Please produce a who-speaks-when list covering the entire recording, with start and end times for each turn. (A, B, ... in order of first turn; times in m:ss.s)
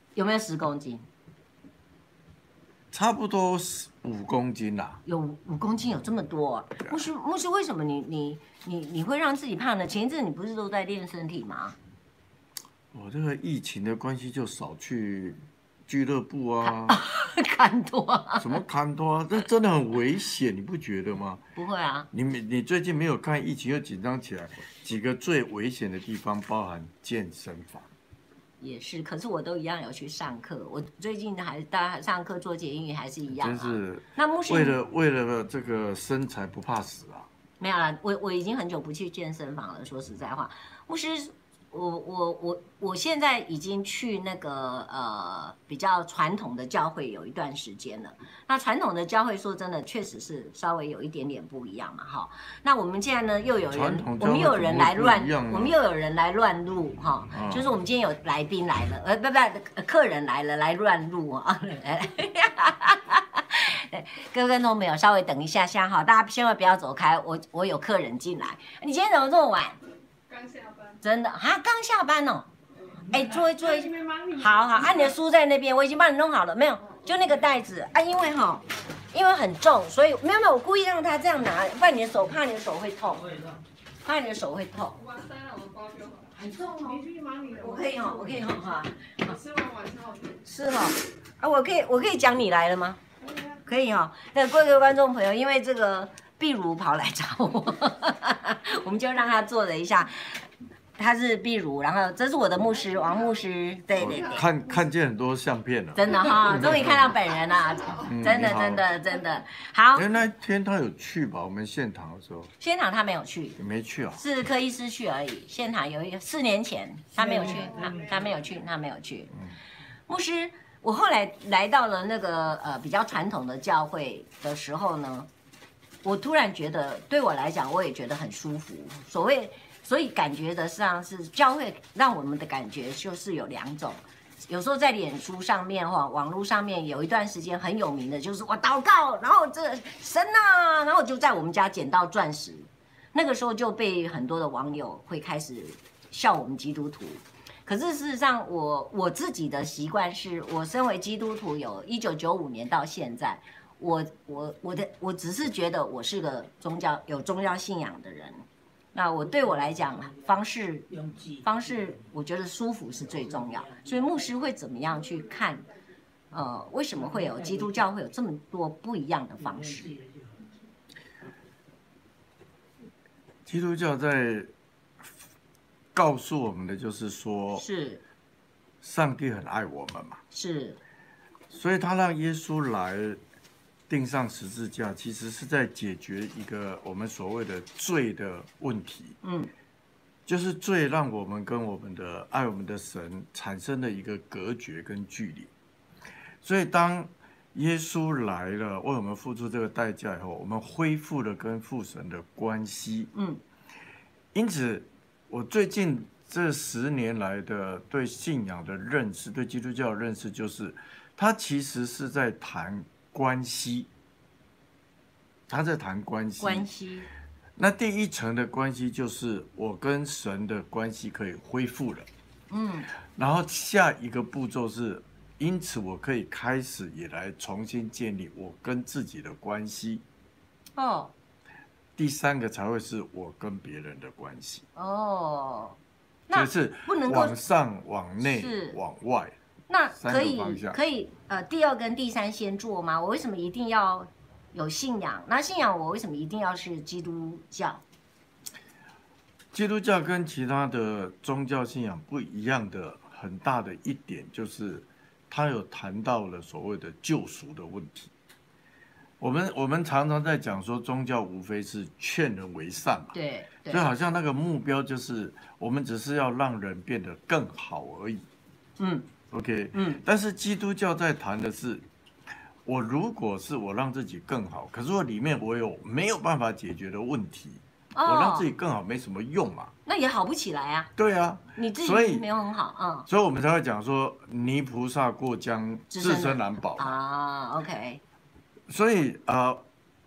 0:00.2-0:01.1 A
0:02.9-0:05.0 B
0:05.1-0:11.8 A
0:12.9-0:17.0 B
0:16.6-0:18.6 A
0:18.4-0:21.4 B
0:21.6-0:22.1 A
0:22.1-0:27.9 B
0:28.6-0:34.8 A
0:33.4-0:37.3 B
0:37.6-1:09.8 A
0:53.7-0:55.8 B
0:57.3-0:57.7 B
1:10.3-1:11.0 C
1:11.0-1:12.5 A
1:13.0-1:23.3 A
1:13.1-1:13.4 D
1:13.6-1:14.8 C
1:23.2-1:23.6 D
1:24.0-1:25.1 A
1:25.0-1:26.3 C
1:26.3-1:29.4 A
1:27.0-1:28.5 C
1:29.2-1:30.4 C
1:30.4-1:33.0 A
1:33.6-1:40.4 A
1:41.0-1:44.4 A
1:43.9-1:47.2 B
1:45.9-1:50.1 A
1:48.0-1:48.9 B
1:49.9-1:52.5 B
1:52.6-1:53.6 A
1:53.6-1:54.2 B
1:54.2-1:59.3 A
1:57.2-1:58.4 D
2:00.1-2:05.3 A
2:06.0-2:40.9 A
2:39.3-2:42.1 D
2:41.4-2:45.6 A
2:43.0-2:44.4 D
2:46.3-2:49.9 A
2:47.0-2:47.9 D
2:49.4-2:50.4 D
2:53.4-2:54.5 B
2:55.9-2:57.6 B
2:57.5-2:58.0 A
2:58.8-3:00.2 B
3:00.3-3:00.8 A
3:01.5-3:03.2 B
3:03.9-3:09.2 B
3:09.2-3:09.5 A
3:10.2-3:15.5 B
3:16.4-3:23.1 B
3:23.1-3:23.4 A
3:24.3-3:33.9 B
3:35.5-3:36.7 B
3:36.4-3:37.1 A
3:37.6-3:42.1 B
3:42.5-3:42.9 A
3:43.1-3:50.0 B
3:50.8-3:51.1 A
3:52.0-3:54.6 B
3:54.8-3:55.8 A
3:56.3-3:57.4 A
3:56.3-3:59.4 B
3:58.2-3:58.8 A
3:59.7-4:07.8 A
3:59.9-4:00.8 B
4:09.5-4:18.1 B
4:19.2-4:23.1 B
4:23.1-4:23.9 A
4:23.7-4:28.2 B
4:28.8-4:29.1 A
4:29.3-4:31.9 B
4:29.7-4:30.0 A
4:32.6-4:39.7 B
4:37.9-4:38.5 A
4:39.9-4:40.9 A
4:41.0-4:42.2 B
4:41.6-4:43.1 A
4:43.1-4:47.0 B
4:45.9-4:48.0 A
4:48.7-4:49.6 B